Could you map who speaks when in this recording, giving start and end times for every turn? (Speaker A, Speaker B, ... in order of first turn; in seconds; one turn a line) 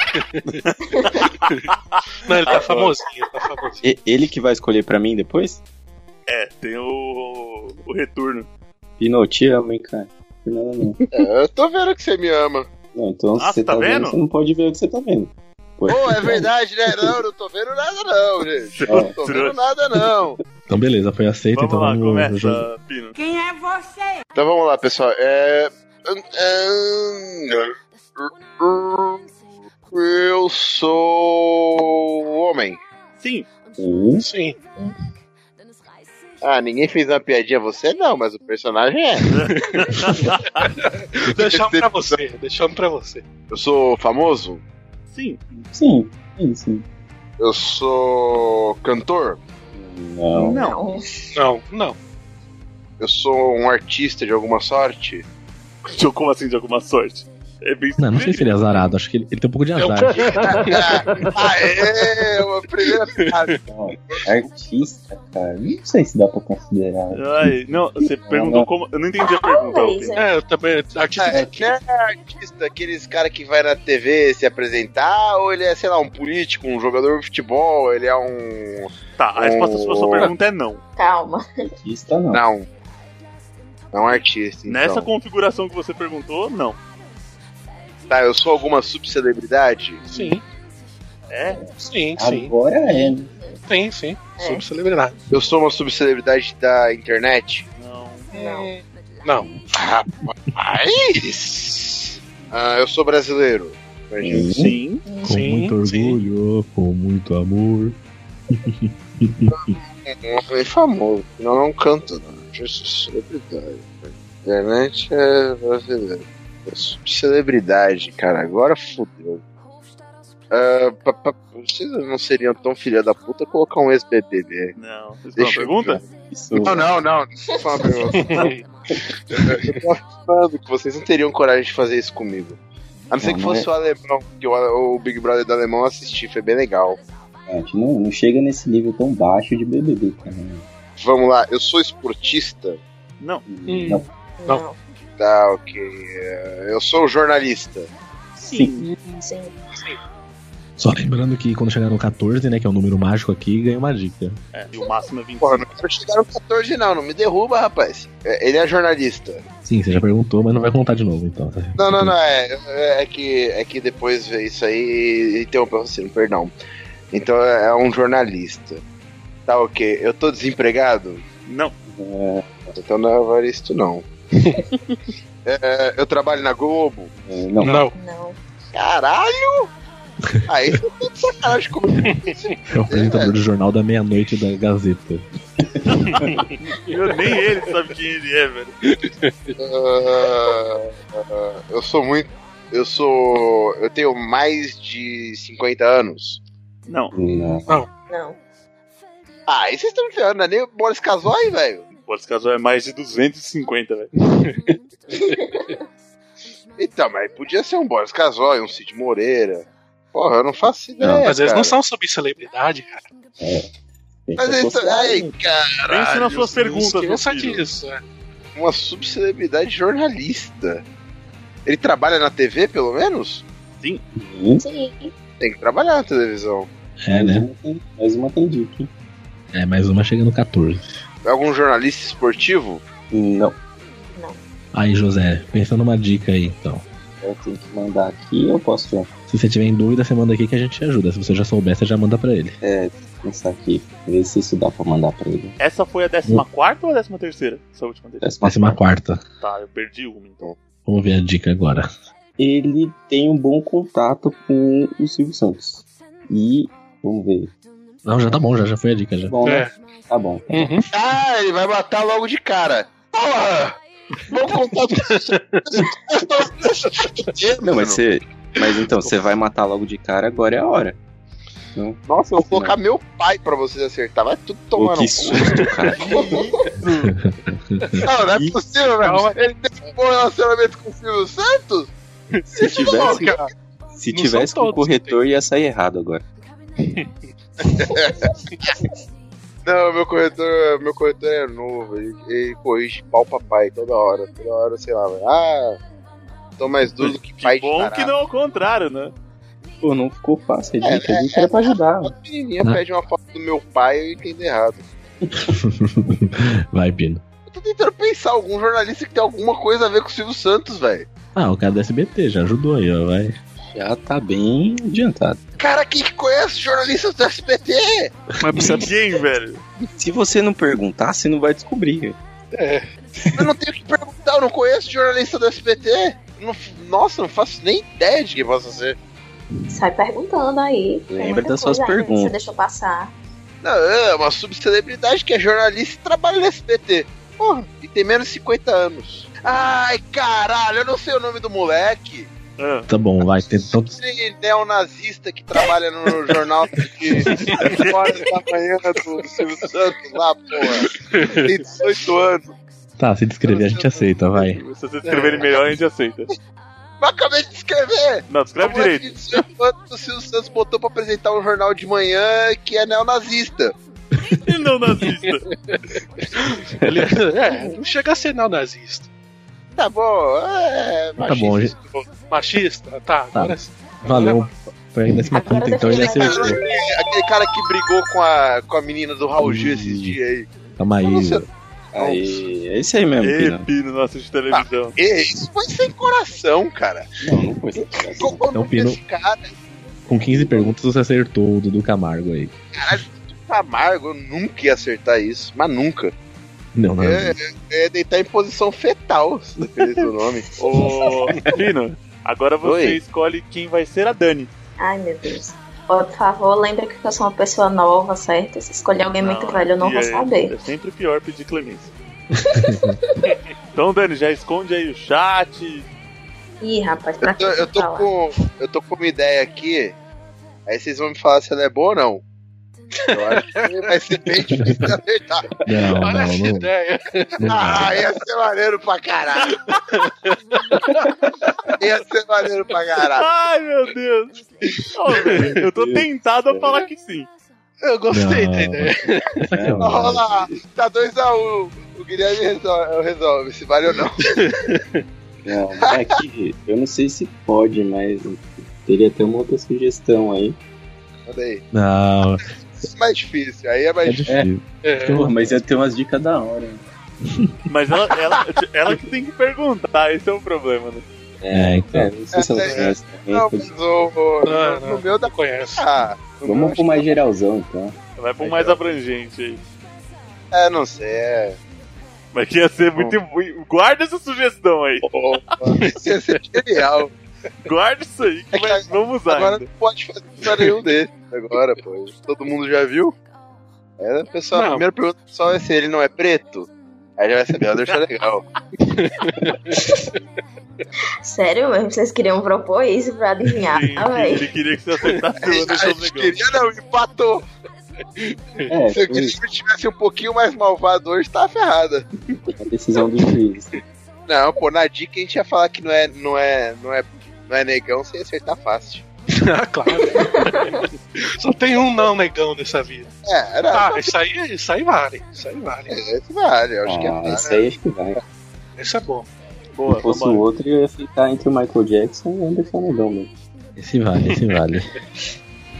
Speaker A: 0.5-2.9
Speaker B: 2.2-3.8
Speaker C: 3.8-5.6
Speaker A: 6.3-8.5
Speaker C: 9.0-11.0
Speaker D: 11.1-12.7
Speaker C: 12.9-16.5
Speaker A: 13.4-14.2
Speaker D: 15.9-20.4
Speaker A: 18.7-19.6
Speaker C: 18.9-19.1
Speaker E: 20.7-22.7
Speaker A: 21.5-23.1
Speaker F: 23.1-24.2
Speaker D: 24.3-29.3
Speaker D: 29.9-32.8
Speaker A: 33.2-33.5
Speaker C: 33.8-34.3
Speaker B: 34.2-34.6
Speaker D: 36.4-39.3
Speaker A: 39.3-40.7
Speaker B: 40.8-43.2
Speaker D: 41.3-42.1
Speaker D: 43.5-44.6
Speaker A: 45.1-45.6
Speaker C: 45.7-46.8
Speaker D: 47.4-49.4
Speaker C: 49.7-50.7
Speaker G: 50.4-51.0
Speaker A: 50.5-50.8
Speaker B: 51.3-52.0
Speaker D: 53.0-55.2
Speaker A: 55.8-58.9
Speaker E: 58.0-60.5
Speaker B: 59.8-61.0
Speaker F: 60.3-61.4
Speaker D: 60.5-64.2
Speaker B: 63.1-63.5
Speaker C: 63.7-67.4
Speaker A: 67.1-70.2
Speaker C: 68.2-68.7
Speaker G: 69.2-70.3
Speaker B: 70.1-71.5
Speaker D: 71.2-80.3
Speaker C: 71.3-71.7
Speaker A: 79.2-80.8
Speaker G: 81.0-81.5
Speaker C: 81.8-82.4
Speaker D: 82.3-82.7
Speaker D: 83.9-85.1
Speaker A: 84.7-86.8
Speaker D: 88.1-90.0
Speaker B: 90.0-90.4
Speaker A: 91.3-91.6
Speaker C: 91.5-93.3
Speaker B: 91.8-92.5
Speaker G: 92.9-93.6
Speaker B: 93.7-95.1
Speaker G: 94.4-94.6
Speaker D: 95.3-97.7
Speaker A: 97.8-98.3
Speaker G: 98.3-98.7
Speaker B: 98.3-99.5
Speaker D: 99.7-104.5
Speaker C: 104.2-104.8
Speaker A: 104.4-105.0
Speaker G: 105.0-105.4
Speaker E: 105.2-108.0
Speaker B: 105.3-106.2
Speaker E: 108.5-109.7
Speaker D: 109.5-119.4
Speaker D: 120.5-124.7
Speaker A: 124.8-126.0
Speaker D: 125.3-126.0
Speaker C: 126.3-126.9
Speaker D: 126.5-128.5
Speaker G: 127.5-128.5
Speaker B: 128.1-128.6
Speaker D: 129.3-132.6
Speaker D: 133.1-137.0
Speaker C: 133.2-133.7
Speaker C: 137.5-140.7
Speaker D: 141.0-142.8
Speaker C: 143.5-144.1
Speaker B: 143.7-144.6
Speaker G: 144.4-144.8
Speaker D: 145.2-147.9
Speaker C: 148.4-148.9
Speaker A: 148.4-148.8
Speaker B: 148.8-149.2
Speaker G: 149.2-149.5
Speaker E: 150.8-154.4
Speaker A: 154.5-155.8
Speaker D: 155.4-159.4
Speaker E: 159.6-162.1
Speaker D: 161.8-166.5
Speaker D: 167.1-168.8
Speaker D: 169.5-171.2
Speaker A: 171.4-171.7
Speaker C: 171.9-172.7
Speaker D: 172.7-174.0
Speaker D: 175.4-177.1
Speaker C: 177.2-177.9
Speaker B: 177.6-177.9
Speaker G: 177.9-178.4
Speaker D: 178.7-179.7
Speaker D: 180.5-183.3
Speaker E: 182.7-185.2
Speaker A: 185.9-188.7
Speaker B: 186.1-186.4
Speaker B: 188.9-189.6
Speaker D: 189.6-196.4
Speaker A: 196.9-197.1
Speaker C: 197.1-197.8
Speaker G: 198.1-198.4
Speaker D: 199.5-201.8
Speaker A: 202.1-204.1
Speaker G: 205.2-205.7
Speaker D: 206.8-211.8
Speaker C: 211.0-211.3
Speaker B: 211.2-213.1
Speaker C: 213.4-213.7
Speaker C: 214.3-215.3
Speaker D: 214.4-216.4
Speaker A: 215.9-217.6
Speaker B: 216.3-218.0
Speaker D: 218.6-220.8
Speaker D: 221.7-223.4
Speaker C: 224.1-224.6
Speaker G: 224.6-225.1
Speaker D: 225.4-226.7
Speaker E: 227.0-227.5
Speaker C: 227.1-228.9
Speaker E: 229.5-231.0
Speaker D: 231.2-232.8
Speaker C: 233.1-233.6
Speaker E: 234.7-236.8
Speaker C: 237.2-239.1
Speaker E: 239.3-242.6
Speaker C: 242.6-245.5
Speaker A: 245.6-248.3
Speaker C: 248.2-248.8
Speaker E: 248.4-249.2
Speaker A: 249.4-250.5
Speaker E: 250.8-251.9
Speaker C: 252.4-257.5
Speaker E: 258.0-259.3
Speaker C: 259.3-260.7
Speaker B: 259.4-259.7
Speaker B: 260.5-260.9
Speaker D: 260.9-268.0
Speaker B: 264.9-265.6
Speaker C: 267.6-271.0
Speaker B: 268.6-269.1
Speaker C: 271.8-272.8
Speaker D: 272.0-275.8
Speaker C: 274.8-276.4
Speaker B: 276.0-276.5
Speaker G: 276.1-276.6
Speaker A: 276.8-277.1
Speaker E: 276.9-278.0
Speaker D: 278.0-281.9
Speaker B: 279.0-279.5
Speaker B: 282.3-283.5
Speaker C: 282.5-283.4
Speaker D: 282.6-283.4
Speaker C: 283.9-286.2
Speaker B: 284.1-285.2
Speaker D: 287.6-288.7
Speaker D: 289.6-295.8
Speaker D: 296.6-298.1
Speaker A: 297.4-299.1
Speaker C: 299.8-302.1
Speaker D: 300.8-304.9
Speaker E: 305.3-307.2
Speaker D: 307.5-311.1
Speaker E: 311.3-313.4
Speaker C: 313.7-315.4
Speaker D: 315.6-318.1
Speaker C: 318.4-319.0
Speaker A: 318.7-319.6
Speaker C: 319.9-322.2
Speaker B: 322.5-322.9
Speaker C: 323.2-323.4
Speaker D: 323.4-329.0
Speaker G: 329.7-333.1
Speaker C: 331.1-332.4
Speaker D: 333.6-342.3
Speaker A: 342.6-342.9
Speaker E: 342.9-344.0
Speaker D: 343.9-352.6
Speaker B: 347.3-347.8
Speaker A: 347.3-348.0
Speaker B: 351.0-351.7
Speaker E: 353.0-354.6
Speaker D: 353.4-354.1
Speaker A: 354.5-356.3
Speaker B: 355.0-355.5
Speaker D: 357.0-363.7
Speaker A: 358.3-359.1
Speaker A: 364.2-365.5
Speaker B: 366.7-369.1
Speaker G: 367.4-367.8
Speaker D: 369.8-372.1
Speaker E: 371.2-371.7
Speaker B: 372.3-374.5
Speaker E: 373.3-376.6
Speaker G: 375.3-376.8
Speaker D: 376.2-380.5
Speaker E: 379.4-380.2
Speaker E: 380.8-381.5
Speaker D: 381.0-381.4
Speaker C: 381.9-383.6
Speaker D: 382.0-382.4
Speaker A: 383.2-385.0
Speaker D: 384.5-387.1
Speaker C: 387.2-388.5
Speaker D: 387.9-389.5
Speaker E: 388.5-389.0
Speaker E: 390.1-392.6
Speaker C: 390.3-390.7
Speaker D: 392.8-396.1
Speaker E: 396.7-397.4
Speaker D: 397.0-400.4
Speaker A: 400.6-404.5
Speaker C: 400.7-401.6
Speaker D: 402.6-403.0
Speaker G: 404.8-410.5
Speaker A: 409.2-411.9
Speaker E: 412.4-413.0
Speaker A: 413.7-415.9
Speaker G: 416.6-418.1
Speaker D: 417.2-420.0
Speaker D: 420.7-422.2
Speaker D: 423.1-425.5
Speaker B: 423.1-423.6
Speaker E: 425.6-426.7
Speaker B: 425.9-427.5
Speaker E: 427.4-428.0
Speaker D: 427.5-429.6
Speaker B: 429.9-431.0
Speaker D: 431.8-433.3
Speaker A: 433.1-437.3
Speaker C: 435.6-436.9
Speaker B: 437.8-439.5
Speaker E: 438.1-440.2
Speaker C: 439.5-440.5
Speaker D: 439.8-444.5
Speaker B: 444.3-445.0
Speaker C: 445.4-450.6
Speaker D: 451.3-451.6
Speaker E: 451.7-452.5
Speaker D: 452.8-454.3
Speaker E: 454.0-455.6
Speaker B: 454.8-455.3
Speaker C: 455.1-456.8
Speaker A: 457.7-461.0
Speaker C: 461.4-463.7
Speaker E: 461.5-462.1
Speaker D: 462.3-467.2
Speaker B: 462.6-462.9
Speaker B: 464.4-465.9
Speaker C: 466.4-468.0
Speaker A: 468.1-469.7
Speaker D: 468.4-468.8
Speaker D: 470.5-471.6
Speaker A: 472.3-475.1
Speaker D: 475.0-477.1
Speaker B: 475.7-476.0
Speaker A: 477.6-479.7
Speaker D: 478.5-483.1
Speaker B: 480.5-480.8
Speaker D: 484.0-488.4
Speaker B: 484.5-484.9
Speaker B: 488.8-489.8
Speaker G: 489.7-490.1
Speaker G: 491.2-494.5
Speaker A: 493.6-496.4
Speaker D: 495.4-497.4
Speaker B: 498.2-498.7
Speaker C: 498.7-499.4
Speaker D: 498.9-502.1
Speaker C: 502.5-503.8
Speaker D: 504.3-509.0
Speaker B: 509.3-513.1
Speaker G: 510.1-510.7
Speaker D: 513.2-514.1
Speaker B: 513.7-515.9
Speaker D: 515.9-517.7
Speaker C: 516.8-518.2
Speaker B: 518.8-519.3
Speaker A: 519.7-520.4
Speaker C: 519.9-523.3
Speaker E: 523.8-524.9